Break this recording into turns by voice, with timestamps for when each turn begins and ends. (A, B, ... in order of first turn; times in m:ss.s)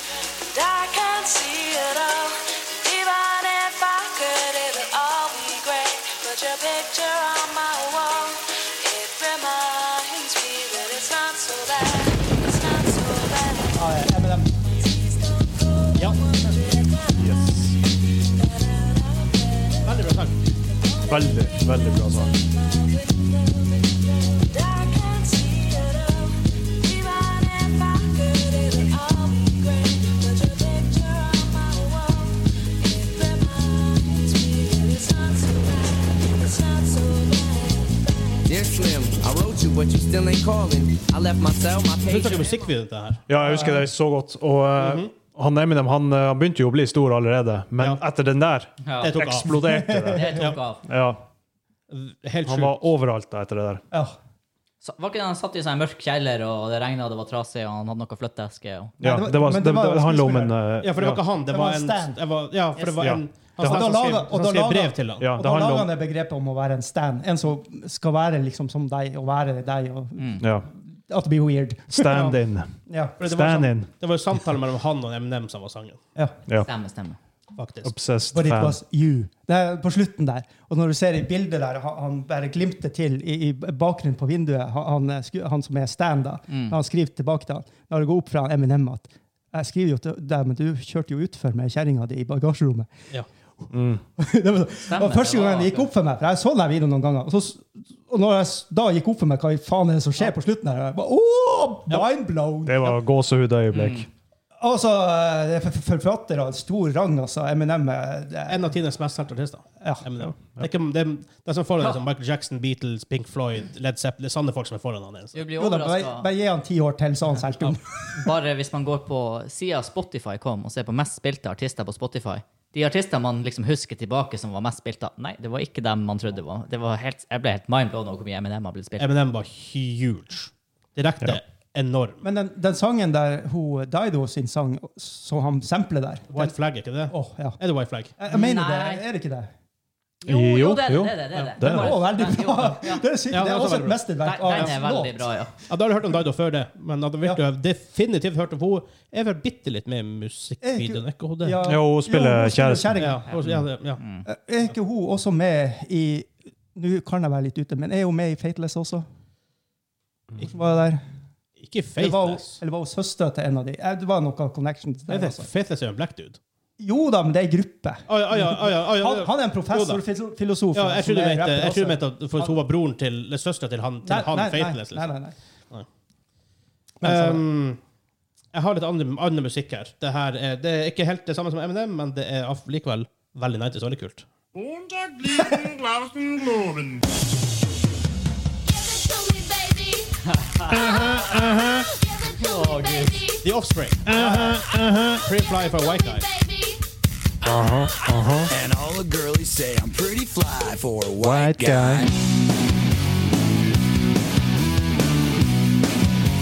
0:00.5-0:14.1 A
0:13.7-0:14.6 B
0:14.6-0:38.6 A
0:16.0-0:16.2 C
0:17.1-0:17.7 D
0:19.8-0:20.4 C
0:21.1-0:22.3 D
0:38.5-0:42.6 E
0:42.0-0:43.2 C
0:43.3-0:51.2 D
0:43.3-0:43.9 B
0:44.8-0:45.1 C
0:48.8-0:49.2 F
0:49.0-0:49.5 C
0:49.5-0:50.5 B
0:50.1-0:50.8 F
0:51.9-0:52.8 C
0:52.5-0:53.8 D
0:53.9-0:54.2 B
0:54.8-0:59.0 F
0:59.0-1:01.2 D
0:59.0-1:00.6 B
1:00.8-1:05.4 C
1:01.4-1:02.2 B
1:03.0-1:04.1 D
1:03.6-1:13.2 B
1:05.2-1:05.9 D
1:10.2-1:10.4 F
1:10.4-1:10.7 D
1:11.9-1:12.7 D
1:13.2-1:13.9 D
1:13.2-1:16.0 C
1:16.6-1:17.2 F
1:17.6-1:17.9 C
1:17.8-1:18.8 D
1:18.3-1:32.9 B
1:26.5-1:26.8 F
1:33.7-1:34.0 D
1:34.2-1:43.0 B
1:34.9-1:35.9 F
1:42.6-1:44.1 D
1:43.7-1:44.1 F
1:44.6-1:48.7 B
1:48.5-1:55.4 C
1:50.2-1:50.7 D
1:55.3-1:56.3 F
1:55.6-1:58.2 B
1:58.2-2:09.1 F
2:09.0-2:12.2 C
2:12.2-2:16.6 B
2:16.3-2:18.2 C
2:17.1-2:17.6 B
2:18.2-2:19.5 B
2:18.3-2:19.0 F
2:20.2-2:22.0 D
2:20.3-2:23.1 F
2:21.6-2:25.2 B
2:23.3-2:24.7 C
2:24.2-2:25.5 F
2:25.7-2:31.6 C
2:30.6-2:33.3 B
2:31.6-2:33.1 D
2:33.0-2:34.0 C
2:34.0-2:34.2 F
2:34.2-2:39.1 B
2:40.4-2:41.0 B
2:41.6-2:42.6 C
2:42.0-2:45.5 B
2:45.1-2:46.4 C
2:46.8-2:52.6 B
2:48.1-2:50.0 C
2:50.7-2:55.2 C
2:54.0-2:55.4 B
2:57.0-2:57.4 B
2:57.0-2:57.8 C
2:58.5-3:04.3 C
3:04.7-3:07.0 D
3:08.7-3:13.4 A
3:10.6-3:10.8 F
3:10.7-3:11.8 D
3:12.4-3:13.2 F
3:13.4-3:14.7 C
3:14.1-3:15.2 D
3:14.2-3:14.5 B
3:14.5-3:16.8 A
3:15.2-3:16.2 C
3:17.4-3:18.5 D
3:18.5-3:22.1 G
3:21.2-3:22.1 D